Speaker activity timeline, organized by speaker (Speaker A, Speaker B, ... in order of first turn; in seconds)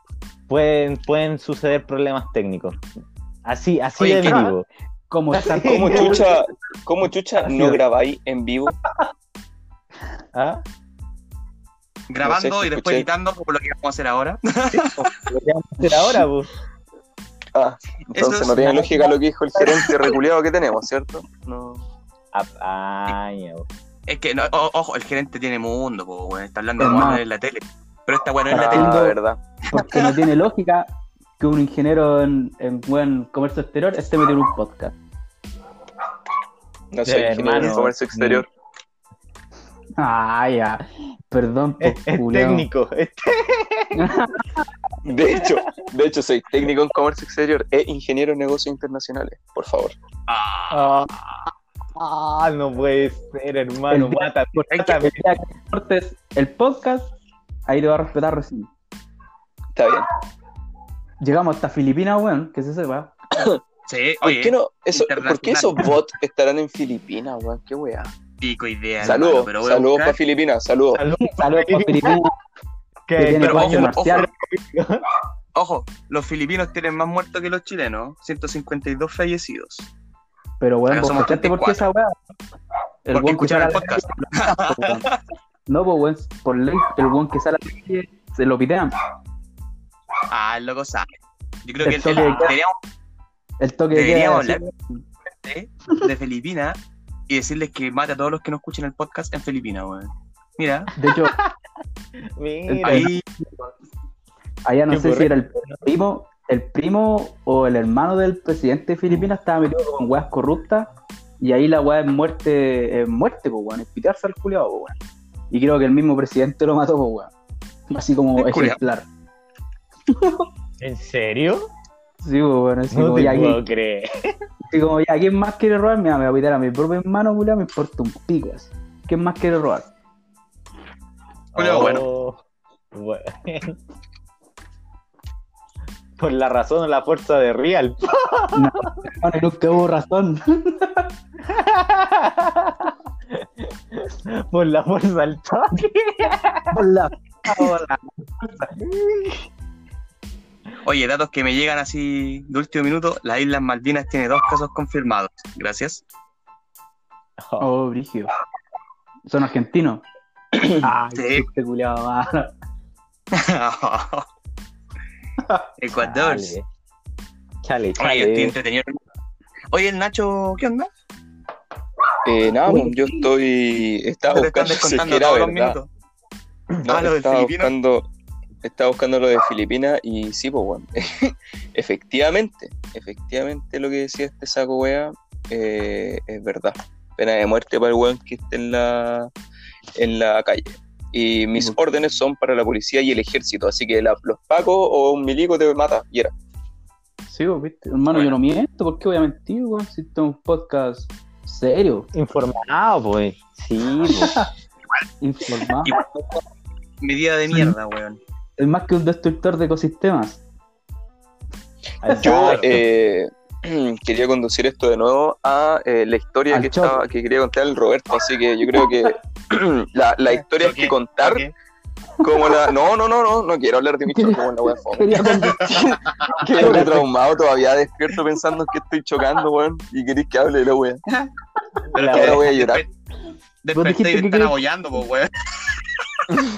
Speaker A: 0.5-2.8, 3.4-4.7, 5.3-6.4, 7.5-7.8, 10.3-10.6, 14.7-16.5, 18.8-19.1, 22.3-23.7, 37.0-38.4, 41.8-44.1, 45.3-45.7, 50.7-51.1, 52.0-55.2, 70.9-72.2, 73.1-75.0, 101.1-101.5, 102.3-103.1, 104.9-105.8, 120.8-121.7, 122.9-124.3, 131.5-132.4, 132.9-133.8, 136.2-138.9, 141.4-146.8, 148.8-149.4, 157.4-157.7, 165.9-166.6, 167.6-168.6, 202.1-204.5, 212.0-212.8, 226.5-226.8, 231.9-232.5
Speaker B: 4.0-4.5, 12.1-15.1, 18.1-18.9, 24.1-29.0, 29.7-30.2, 50.3-51.0, 63.9-65.9, 68.4-70.2, 73.4-74.3, 75.5-79.9, 80.9-81.8, 83.1-85.2, 90.3-92.8, 93.9-94.7, 95.4-100.9, 102.8-103.2, 118.4-118.8, 131.6-132.1, 150.8-156.0, 161.1-161.4, 163.3-164.3, 165.8-166.5, 168.0-169.0, 169.7-170.9, 174.3-175.9, 176.8-177.7, 205.8-206.4, 207.0-208.2, 212.4-212.7, 220.3-221.5, 231.9-232.9, 233.6-236.3
Speaker C: 5.1-6.2, 26.8-27.2, 28.6-29.2, 29.7-34.9, 40.0-42.7, 43.9-44.7, 53.9-57.1, 57.7-58.7, 61.2-63.1, 71.2-72.3, 73.2-74.3, 80.6-82.2, 83.0-85.1, 85.7-89.0, 91.8-92.5, 93.6-95.0, 101.0-101.3, 102.7-103.7, 104.6-110.9, 111.4-115.0, 115.5-117.3, 117.9-119.0, 120.1-120.5, 122.2-123.6, 124.7-129.9, 138.5-141.1, 146.7-148.7, 157.6-158.3, 159.2-160.0, 160.7-162.5, 172.7-172.9, 197.3-202.1, 204.1-204.5, 205.2-205.9, 208.6-210.4, 212.0-212.5, 216.5-217.0, 218.7-219.1, 224.1-227.1, 233.7-234.5
Speaker D: 5.7-8.7, 12.2-13.1, 17.5-21.8, 28.5-29.4, 36.9-38.5, 45.0-49.9, 59.7-60.1, 63.3-63.6, 64.2-68.1, 69.0-71.0, 172.2-175.8, 176.8-178.1, 178.6-189.3, 189.9-196.3, 212.1-221.4, 222.2-231.0, 232.0-232.8